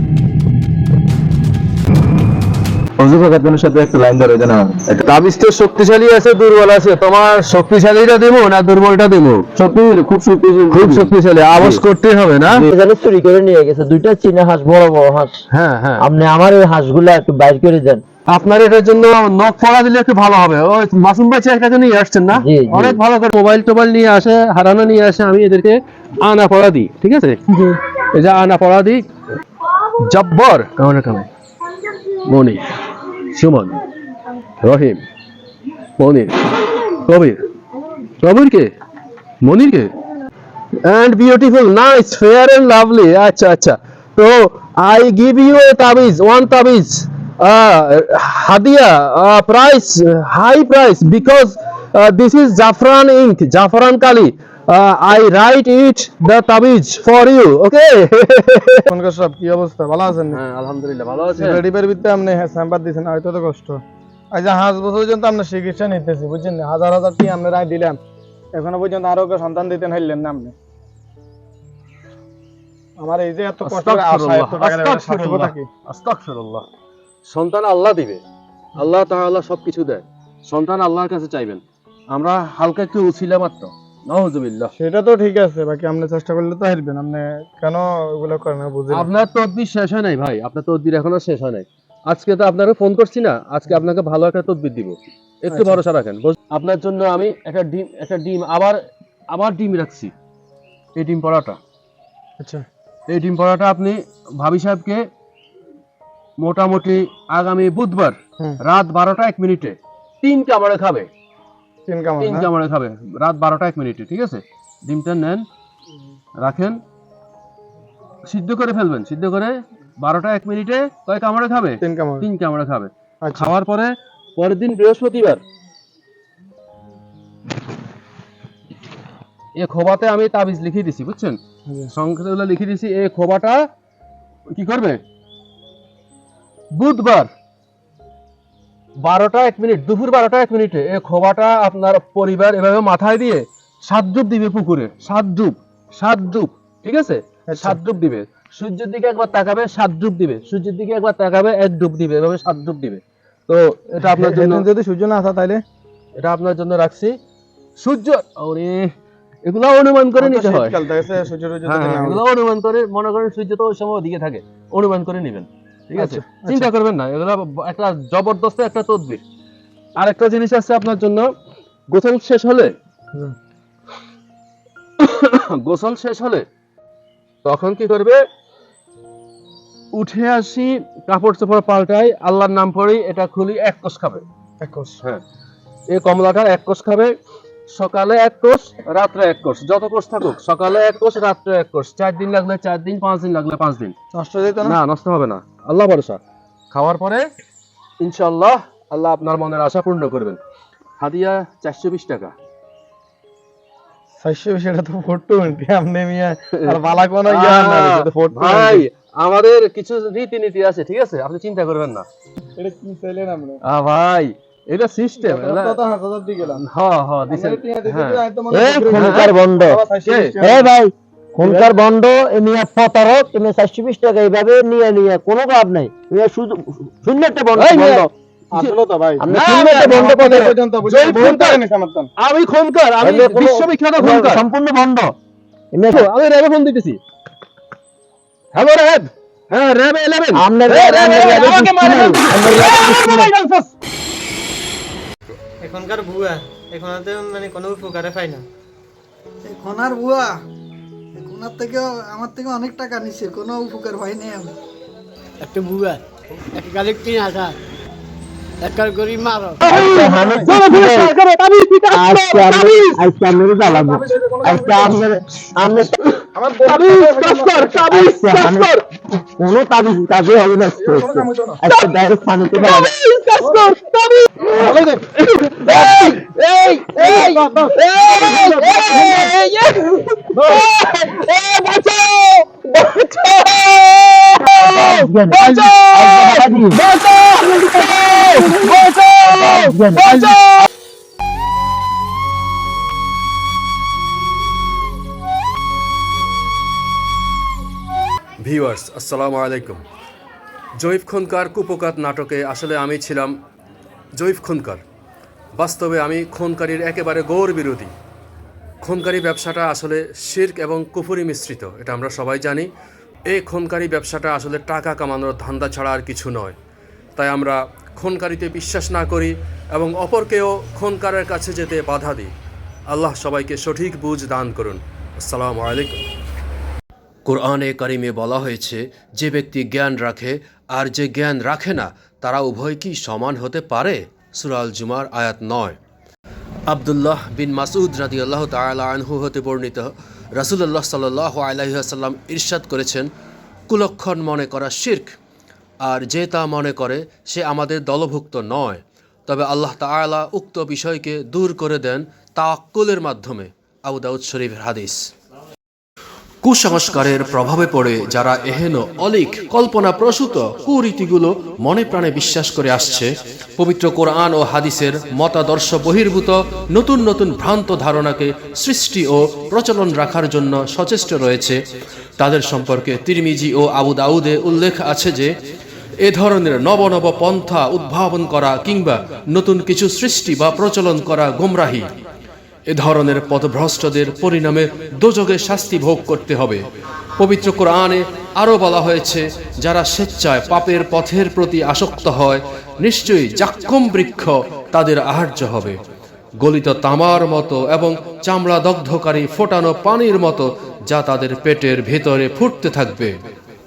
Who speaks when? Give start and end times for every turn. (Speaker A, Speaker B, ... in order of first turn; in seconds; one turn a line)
Speaker A: 3.0-4.8
Speaker B: 4.9-9.8
Speaker A: 9.8-11.8
Speaker B: 10.7-12.7
Speaker C: 12.6-15.4
Speaker B: 15.5-16.1
Speaker C: 16.0-18.0
Speaker B: 18.3-29.0
Speaker C: 22.3-23.0
Speaker B: 30.0-31.3
Speaker B: 32.3-33.8
Speaker B: 34.6-35.0
Speaker B: 36.0-37.4
Speaker B: 38.2-38.7
Speaker B: 39.4-39.9
Speaker B: 40.8-58.9
Speaker D: 58.9-60.4
Speaker B: 60.3-61.6
Speaker D: 61.4-68.0
Speaker D: 68.5-70.5
Speaker D: 73.0-75.7
Speaker B: 73.6-76.7
Speaker B: 77.3-78.2
Speaker B: 78.8-84.7
Speaker D: 84.8-89.1
Speaker B: 88.9-100.1
Speaker D: 95.5-95.8
Speaker B: 101.0-101.6
Speaker D: 102.4-102.7
Speaker B: 103.1-105.1
Speaker B: 106.4-111.1
Speaker D: 111.9-112.5
Speaker B: 112.2-115.5
Speaker B: 116.4-116.8
Speaker B: 118.3-125.4
Speaker D: 121.8-122.3
Speaker D: 123.2-123.5
Speaker B: 129.6-131.4
Speaker B: 131.9-133.7
Speaker B: 134.5-135.0
Speaker B: 136.7-137.3
Speaker B: 139.0-154.7
Speaker D: 147.5-147.8
Speaker D: 154.0-155.6
Speaker B: 156.2-157.2
Speaker B: 157.8-158.9
Speaker B: 159.4-161.0
Speaker D: 160.2-162.3
Speaker B: 161.7-169.2
Speaker D: 166.0-166.7
Speaker B: 170.0-171.3
Speaker B: 171.9-172.7
Speaker B: 175.0-176.4
Speaker B: 177.4-178.2
Speaker B: 179.9-184.2
Speaker D: 184.6-185.0
Speaker B: 185.9-187.1
Speaker B: 187.7-193.9
Speaker D: 194.1-194.8
Speaker B: 194.6-197.3
Speaker B: 198.0-200.4
Speaker B: 201.0-202.3
Speaker D: 204.2-208.9
Speaker B: 206.5-212.1
Speaker D: 212.6-213.6
Speaker B: 213.6-215.8
Speaker D: 215.2-216.6
Speaker B: 216.5-218.2
Speaker D: 217.3-220.7
Speaker C: 218.5-219.8
Speaker B: 218.9-219.3
Speaker B: 220.1-220.3
Speaker C: 220.4-228.1
Speaker D: 221.4-221.7
Speaker B: 227.6-228.7
Speaker D: 228.5-232.1
Speaker C: 229.2-230.2
Speaker B: 229.3-231.6
Speaker B: 232.2-234.4
Speaker C: 233.0-235.1
Speaker C: 235.7-236.1
Speaker B: 235.9-237.0
Speaker B: 238.5-243.7
Speaker C: 240.3-243.3
Speaker E: 245.6-248.5
Speaker F: 249.4-250.4
Speaker F: 251.2-254.5
Speaker G: 255.4-256.0
Speaker G: 256.5-257.6
Speaker G: 258.6-259.6
Speaker B: 259.6-263.0
Speaker C: 259.6-261.1
Speaker D: 259.7-260.5
Speaker C: 261.9-266.0
Speaker D: 263.6-265.1
Speaker B: 266.0-268.8
Speaker D: 266.3-267.8
Speaker C: 267.9-272.9
Speaker D: 270.8-271.6
Speaker B: 272.6-277.4
Speaker D: 274.6-275.0
Speaker C: 275.7-276.2
Speaker D: 276.9-279.3
Speaker C: 277.0-279.3
Speaker B: 278.1-280.9
Speaker C: 280.4-283.1
Speaker B: 282.9-290.7
Speaker C: 284.4-286.8
Speaker C: 287.5-288.7
Speaker C: 289.2-290.3
Speaker B: 298.4-299.8
Speaker B: 300.8-303.4
Speaker B: 304.2-304.8
Speaker B: 305.6-307.9
Speaker B: 308.8-312.7
Speaker B: 313.3-316.6
Speaker B: 317.2-322.3
Speaker B: 322.9-326.0
Speaker B: 327.3-335.8
Speaker B: 336.7-343.1
Speaker B: 343.7-345.2
Speaker B: 345.8-355.1
Speaker B: 356.4-371.6
Speaker B: 372.2-375.3
Speaker B: 376.0-381.9
Speaker B: 382.7-386.6
Speaker B: 387.2-395.8
Speaker B: 396.4-403.1